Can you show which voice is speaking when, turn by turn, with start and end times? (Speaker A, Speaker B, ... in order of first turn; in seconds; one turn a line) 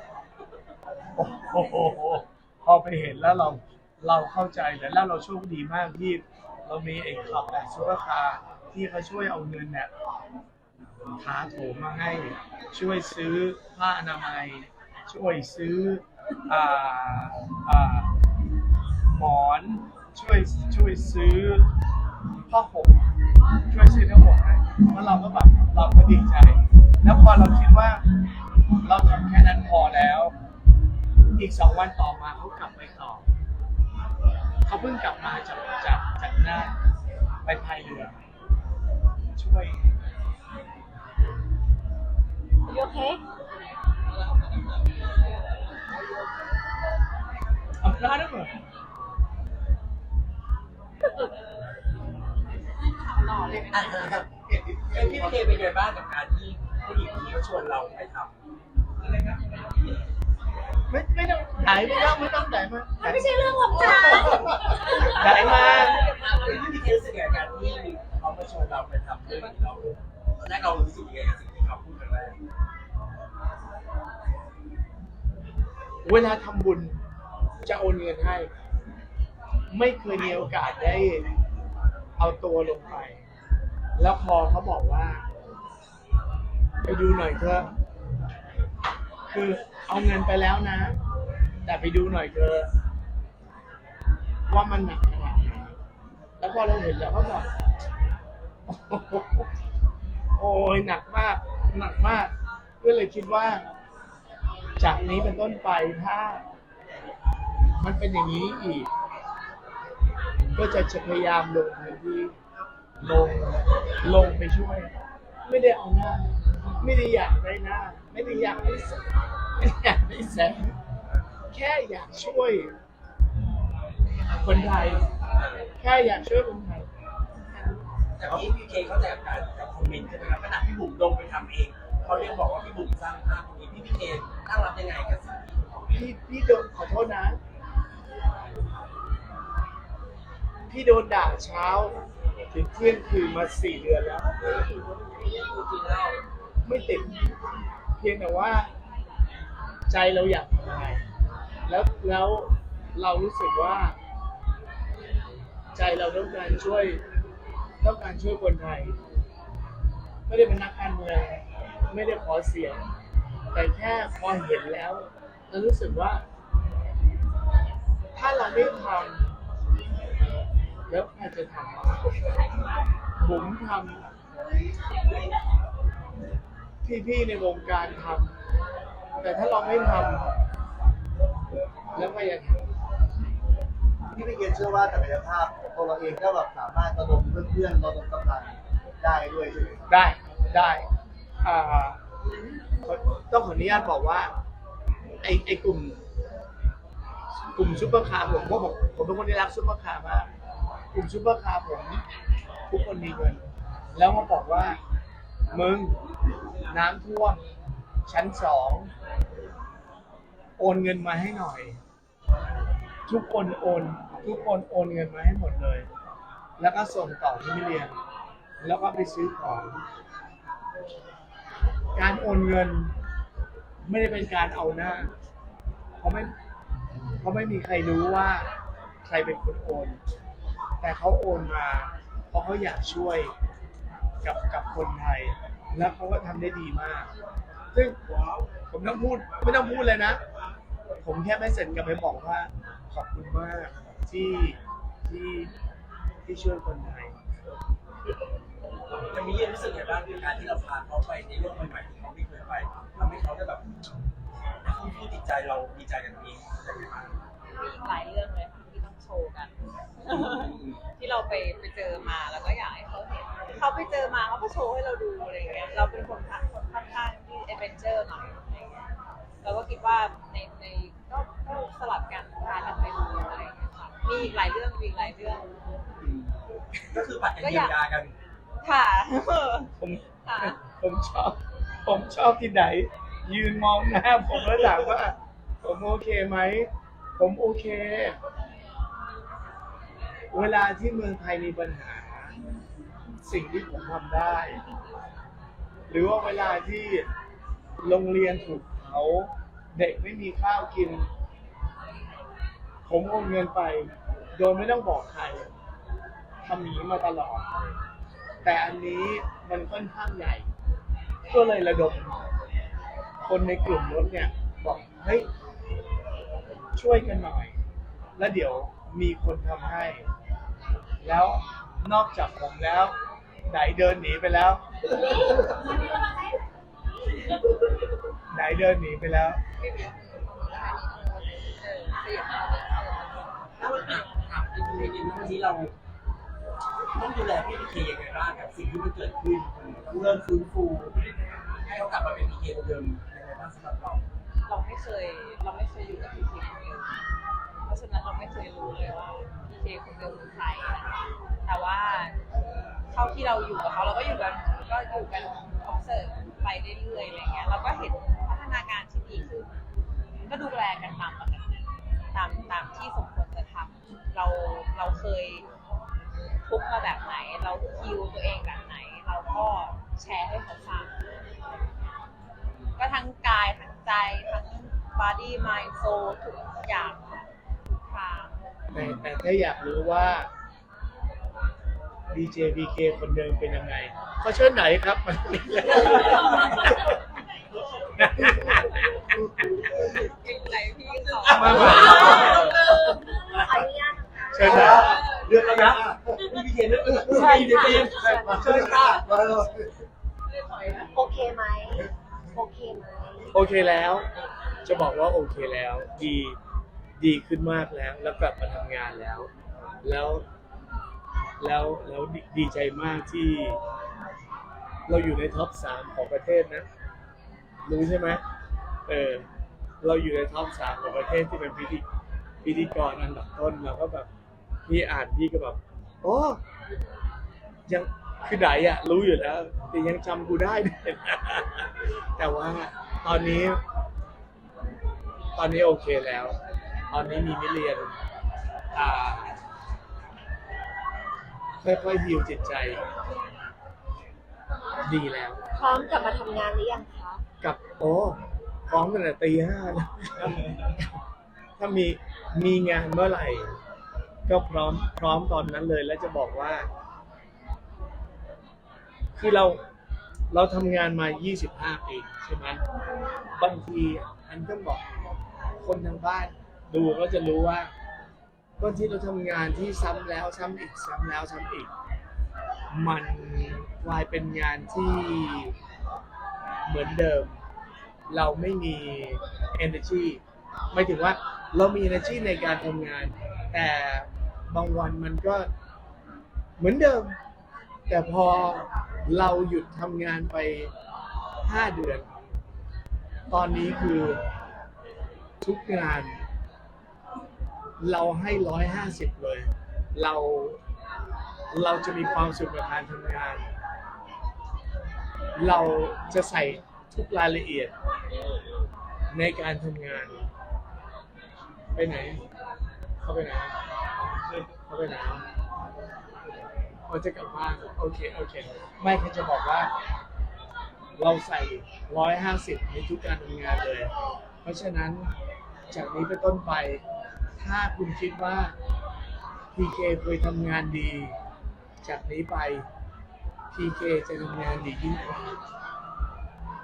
Speaker A: 1.2-9.9
Speaker A: 11.2-18.1
Speaker A: 19.1-21.7
Speaker A: 22.5-23.0
Speaker A: 23.7-28.0
Speaker A: 28.8-30.4
Speaker A: 31.4-33.2
Speaker A: 34.7-36.8
Speaker A: 37.4-38.1
Speaker A: 39.4-39.9
Speaker B: 42.7-43.2
Speaker A: 47.8-48.5
Speaker C: 52.9-54.0
Speaker D: 53.7-54.3
Speaker E: 54.5-55.6
Speaker D: 54.9-58.3
Speaker D: 59.0-59.6
Speaker A: 60.9-66.0
Speaker B: 63.0-65.7
Speaker D: 65.2-72.4
Speaker A: 76.0-77.0
Speaker A: 77.7-78.5
Speaker A: 79.7-81.3
Speaker A: 82.2-83.2
Speaker A: 84.0-85.2
Speaker A: 86.8-87.7
Speaker A: 89.3-91.0
Speaker A: 91.7-92.7
Speaker A: 94.5-95.8
Speaker A: 96.4-97.5
Speaker A: 98.7-99.5
Speaker A: 100.4-103.6
Speaker A: 104.8-106.5
Speaker A: 107.8-108.9
Speaker A: 110.5-112.3
Speaker A: 113.0-114.9
Speaker A: 115.5-119.0
Speaker A: 119.6-120.7
Speaker A: 121.5-122.7
Speaker A: 124.3-125.0
Speaker D: 125.3-125.7
Speaker A: 125.8-126.9
Speaker D: 128.2-135.4
Speaker A: 135.9-137.4
Speaker A: 140.7-142.0
Speaker A: 142.5-144.3
Speaker D: 145.2-146.2
Speaker A: 146.7-147.2
Speaker A: 148.0-148.7
Speaker A: 149.9-151.0
Speaker A: 151.7-154.0
Speaker A: 155.8-157.0
Speaker A: 157.8-159.0
Speaker A: 160.3-162.8
Speaker A: 163.5-166.2
Speaker A: 168.2-169.3
Speaker A: 170.9-172.1
Speaker A: 173.2-174.0
Speaker A: 176.8-178.4
Speaker A: 179.2-180.3
Speaker A: 181.9-182.6
Speaker E: 184.2-189.8
Speaker A: 189.9-190.9
Speaker A: 191.4-192.0
Speaker A: 192.9-194.3
Speaker A: 195.2-196.0
Speaker A: 197.6-200.3
Speaker A: 200.9-202.0
Speaker A: 202.7-204.8
Speaker A: 205.5-206.0
Speaker A: 206.7-207.4
Speaker A: 208.1-208.9
Speaker A: 210.6-211.8
Speaker A: 213.1-215.9
Speaker A: 216.6-217.9
Speaker A: 218.6-219.8
Speaker A: 221.9-222.9
Speaker A: 223.8-225.1
Speaker A: 226.0-226.3
Speaker A: 227.2-228.5
Speaker A: 229.0-230.0
Speaker A: 230.8-233.3
Speaker A: 234.2-237.1
Speaker A: 237.7-238.0
Speaker A: 238.7-240.2
Speaker A: 241.0-245.5
Speaker A: 246.3-247.2
Speaker D: 249.1-253.7
Speaker D: 254.6-257.2
Speaker C: 257.6-259.5
Speaker C: 260.0-268.9
Speaker D: 260.1-260.8
Speaker C: 269.4-275.5
Speaker D: 276.0-276.4
Speaker D: 276.9-278.1
Speaker C: 277.4-277.8
Speaker C: 278.6-279.7
Speaker A: 279.8-288.2
Speaker C: 280.2-280.6
Speaker A: 290.3-292.4
Speaker A: 293.2-294.6
Speaker A: 295.9-297.1
Speaker A: 297.8-301.1
Speaker A: 302.9-305.5
Speaker A: 306.4-307.4
Speaker A: 308.4-310.5
Speaker A: 311.3-312.2
Speaker A: 313.2-315.3
Speaker A: 316.8-317.6
Speaker A: 318.2-320.1
Speaker A: 321.0-324.6
Speaker B: 325.0-326.1
Speaker A: 328.3-329.4
Speaker C: 329.6-333.3
Speaker D: 333.6-335.7
Speaker D: 336.9-341.0
Speaker D: 341.7-344.0
Speaker C: 344.4-346.9
Speaker C: 347.7-350.9
Speaker C: 351.5-352.2
Speaker C: 352.9-359.5
Speaker C: 360.2-361.5
Speaker C: 362.1-365.4
Speaker C: 366.4-370.9
Speaker C: 372.8-378.4
Speaker A: 378.7-380.3
Speaker A: 382.1-386.9
Speaker A: 388.0-389.1
Speaker C: 389.8-392.5
Speaker D: 391.2-393.0
Speaker A: 391.2-392.4
Speaker B: 392.1-394.8
Speaker A: 394.3-394.9
Speaker D: 394.5-399.2
Speaker E: 394.5-396.2
Speaker E: 397.1-399.7
Speaker B: 397.3-398.1
Speaker C: 400.3-400.9
Speaker B: 400.9-403.3
Speaker A: 403.3-404.1
Speaker A: 404.6-406.4
Speaker A: 407.0-409.3
Speaker A: 409.8-410.2
Speaker A: 411.4-413.6
Speaker A: 414.9-416.7
Speaker A: 417.7-418.2
Speaker A: 418.9-419.3
Speaker A: 419.8-421.8
Speaker A: 422.4-424.1
Speaker A: 424.7-426.4
Speaker A: 427.7-433.6
Speaker A: 435.4-436.4
Speaker A: 436.9-437.9
Speaker A: 438.7-439.4
Speaker A: 441.6-442.8
Speaker A: 444.8-445.4
Speaker B: 445.5-447.2
Speaker A: 447.4-450.9
Speaker D: 450.3-450.7
Speaker A: 451.6-453.5
Speaker A: 454.3-456.7
Speaker A: 459.1-459.6
Speaker A: 460.3-462.6
Speaker A: 463.4-464.8
Speaker A: 465.6-467.7
Speaker A: 468.6-471.7
Speaker A: 472.7-475.6
Speaker A: 476.7-477.4
Speaker A: 478.1-480.2
Speaker A: 480.7-485.5
Speaker A: 486.6-487.2
Speaker A: 487.9-490.7
Speaker A: 491.4-492.1
Speaker A: 493.3-494.2
Speaker A: 495.4-496.2
Speaker A: 497.8-500.6
Speaker A: 501.5-503.4
Speaker A: 505.4-507.7
Speaker A: 509.1-510.2
Speaker A: 511.8-512.2
Speaker A: 513.0-513.6
Speaker A: 514.7-515.3
Speaker A: 516.9-519.7
Speaker A: 521.0-523.9
Speaker A: 524.4-525.1
Speaker A: 525.7-526.8
Speaker A: 527.4-528.6
Speaker A: 529.5-531.1
Speaker A: 531.8-532.7
Speaker A: 533.5-535.2